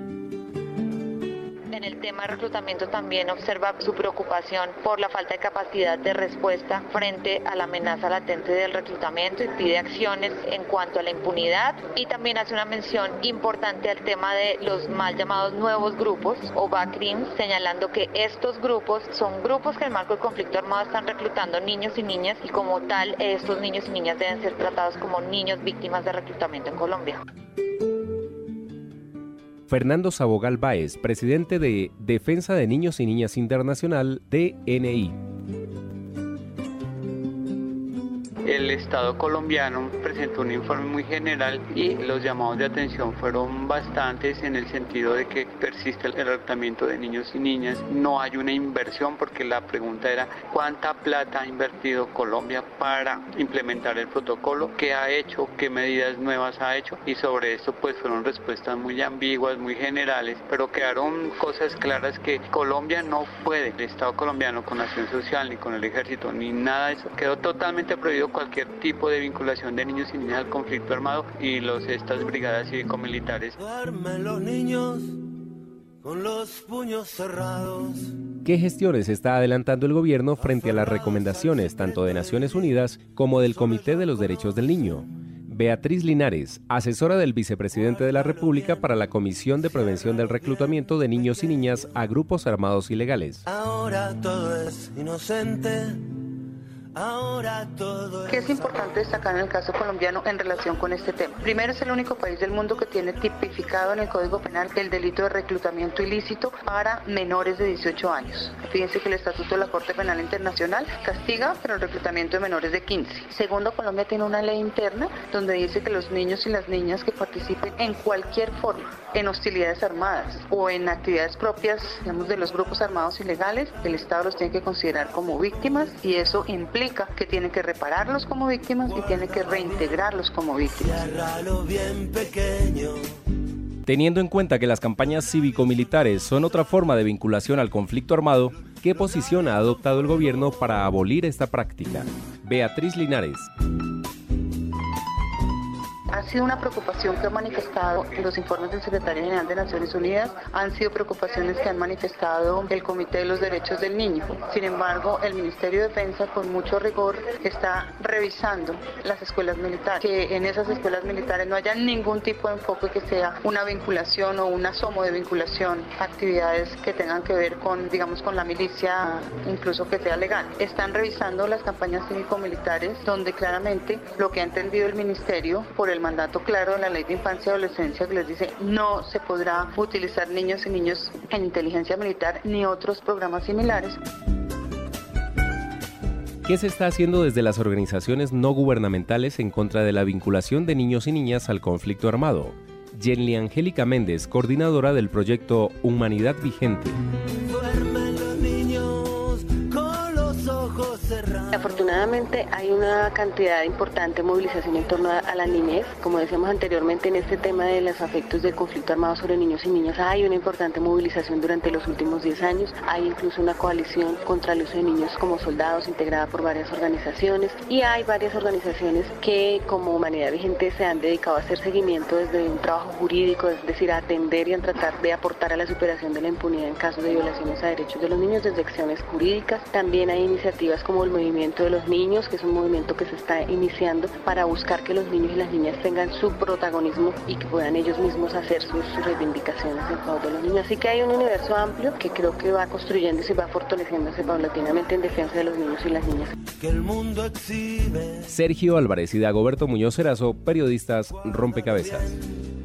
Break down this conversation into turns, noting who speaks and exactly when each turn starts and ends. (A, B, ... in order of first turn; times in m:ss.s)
0:01.7-0:27.2 A
0:29.7-0:35.2 B
0:38.5-1:13.6 C
1:13.6-1:15.2 D
1:16.0-1:18.2 D
1:18.4-1:33.4 B
1:20.4-1:25.0 D
1:27.7-1:29.0 D
1:29.6-1:32.0 D
1:33.5-1:36.1 D
1:37.0-1:38.8 D
1:38.3-2:11.1 E
2:08.9-2:09.9 D
2:10.7-2:13.1 D
2:13.9-2:23.5 B
2:18.8-2:20.7 D
2:26.1-3:04.0 E
3:06.5-3:17.0 B
3:17.5-3:21.8 D
3:22.1-4:06.2 F
4:06.5-4:08.3 D
4:08.3-4:12.1 B
4:11.1-4:12.2 D